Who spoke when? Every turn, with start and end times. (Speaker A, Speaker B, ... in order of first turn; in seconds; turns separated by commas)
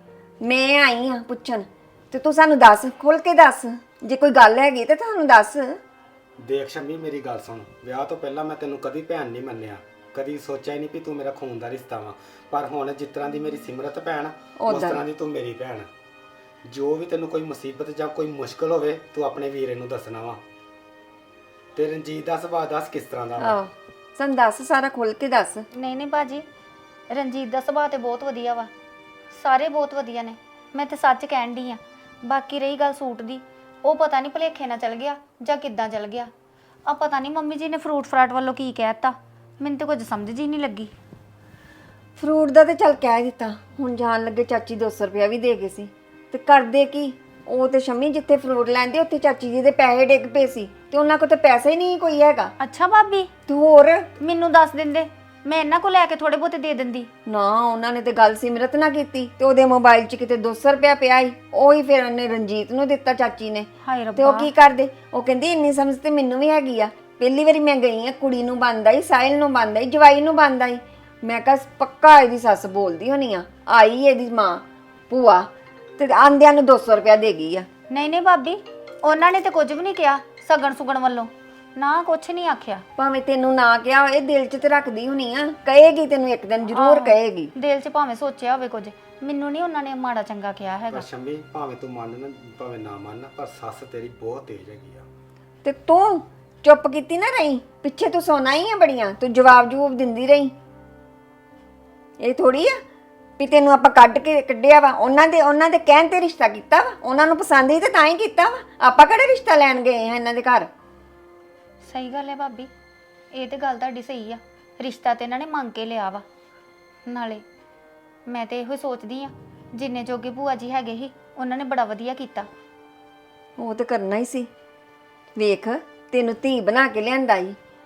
Speaker A: 0.4-5.8, Speaker B: 6.4-15.9, Speaker A: 14.6-15.0, Speaker B: 16.7-20.4, Speaker B: 21.8-23.6, Speaker A: 23.4-25.7, Speaker C: 25.7-26.4, Speaker C: 27.1-28.7, Speaker C: 29.3-36.3, Speaker C: 36.9-40.9, Speaker A: 42.2-52.5, Speaker C: 52.6-53.3, Speaker A: 53.5-54.1, Speaker C: 54.2-57.1, Speaker A: 57.3-77.7, Speaker C: 63.8-64.5, Speaker C: 77.9-82.8, Speaker A: 83.0-87.5, Speaker C: 86.7-91.0, Speaker B: 90.9-95.1, Speaker A: 95.6-100.5, Speaker A: 102.2-102.8, Speaker A: 103.4-110.7, Speaker C: 111.8-112.7, Speaker C: 113.3-116.2, Speaker C: 117.1-117.4, Speaker C: 118.3-122.5, Speaker A: 123.6-124.5, Speaker A: 125.4-127.6